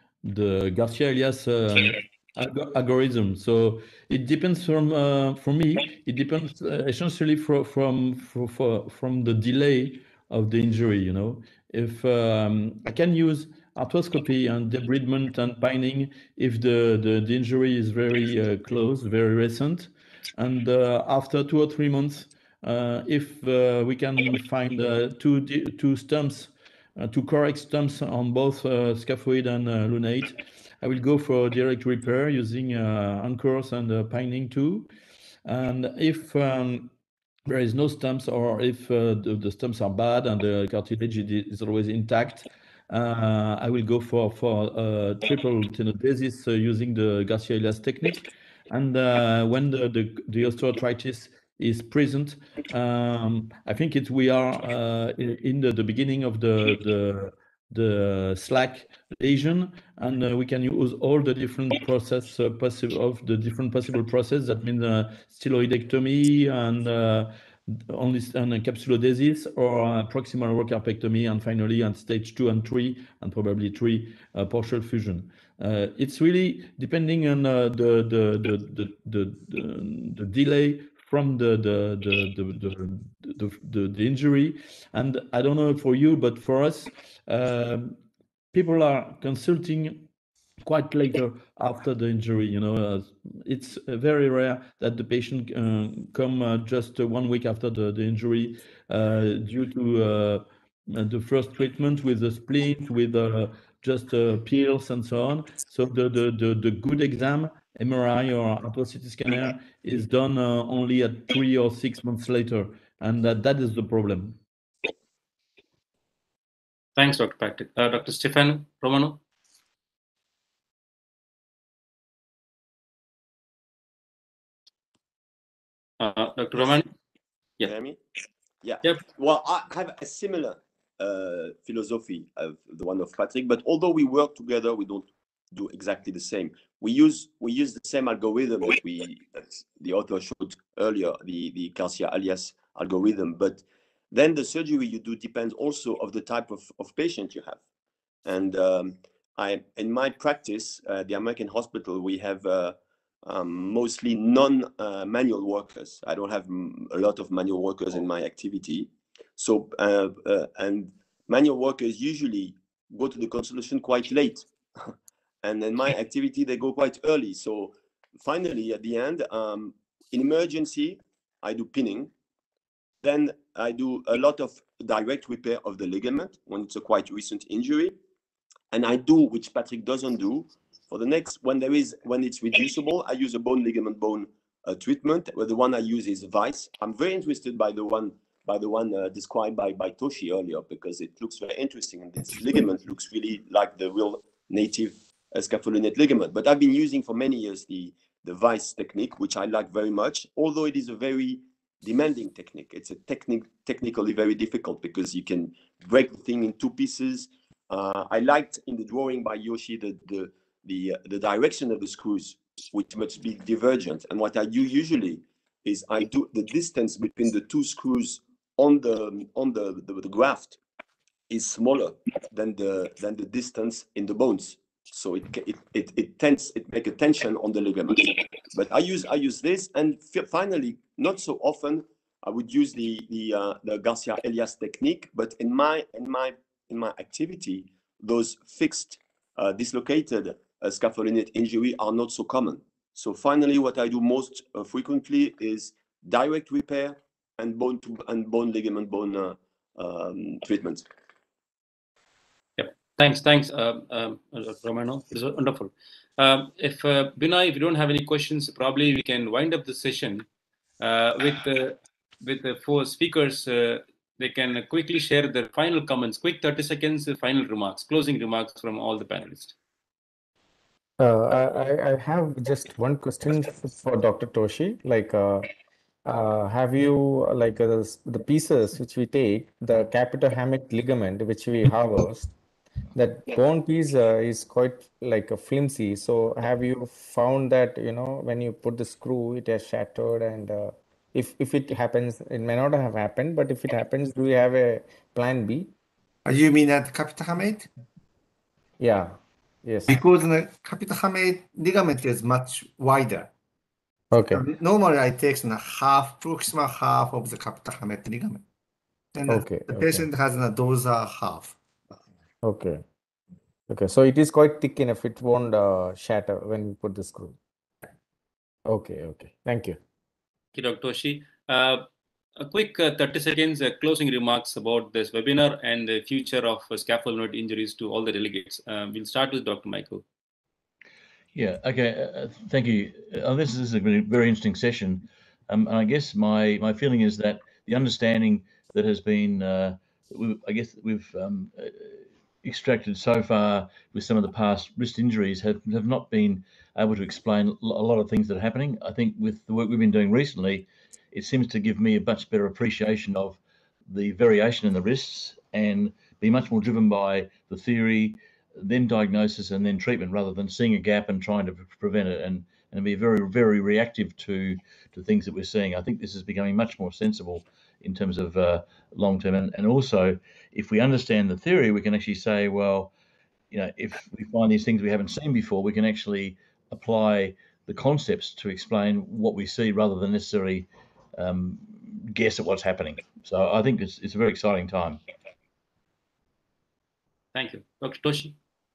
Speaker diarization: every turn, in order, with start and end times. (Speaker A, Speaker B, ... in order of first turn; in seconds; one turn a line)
Speaker A: 0.2-34.9
Speaker A: 35.5-36.9
Speaker A: 37.5-88.0
Speaker A: 88.5-90.1
Speaker A: 90.6-114.4
Speaker B: 117.0-119.2
Speaker B: 126.0-126.9
Speaker C: 127.6-128.0
Speaker C: 128.6-147.6
Speaker C: 148.2-172.1
Speaker C: 173.0-178.0
Speaker C: 178.7-220.6
Speaker C: 221.3-250.8
Speaker B: 252.6-260.3
Speaker B: 260.8-269.6
Speaker D: 271.0-275.5
Speaker D: 276.1-282.3
Speaker D: 282.9-295.7
Speaker E: 296.3-297.7
Speaker D: 298.8-299.9
Speaker E: 299.9-303.3
Speaker D: 304.1-304.4
Speaker E: 304.3-308.4
Speaker E: 309.1-311.6
Speaker D: 309.3-310.1
Speaker D: 312.4-312.8
Speaker D: 313.7-317.4
Speaker D: 318.7-319.8
Speaker B: 320.6-321.9
Speaker B: 322.4-330.0
Speaker F: 331.4-372.9
Speaker F: 373.5-385.0
Speaker B: 387.3-388.4